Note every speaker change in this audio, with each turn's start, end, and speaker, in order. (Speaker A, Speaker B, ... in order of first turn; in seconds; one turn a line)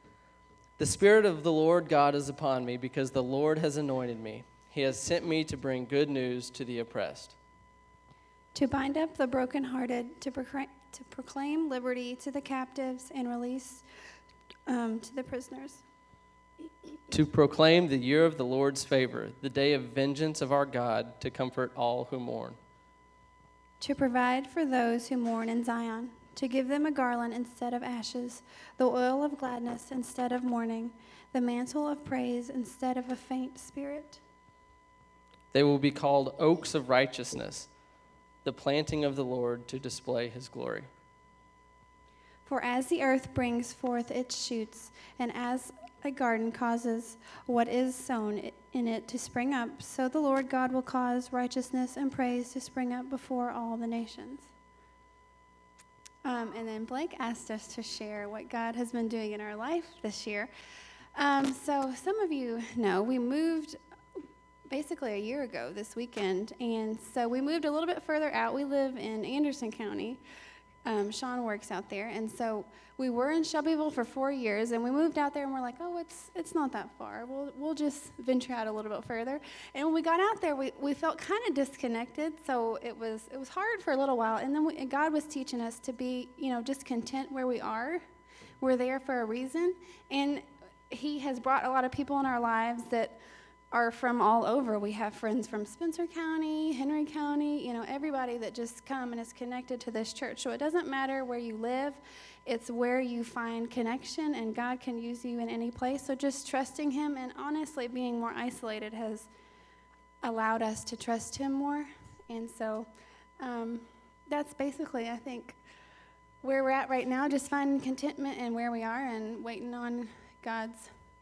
Speaker A: 0.8-7.4
Speaker B: 8.5-13.9
Speaker B: 14.7-15.8
Speaker A: 17.1-22.6
Speaker B: 23.8-34.2
Speaker A: 35.5-37.7
Speaker A: 38.4-40.9
Speaker B: 42.5-54.5
Speaker B: 56.2-60.5
Speaker B: 61.1-63.8
Speaker B: 64.7-70.2
Speaker B: 70.8-88.0
Speaker B: 88.6-93.2
Speaker B: 93.7-109.3
Speaker B: 110.2-115.6
Speaker B: 116.4-120.9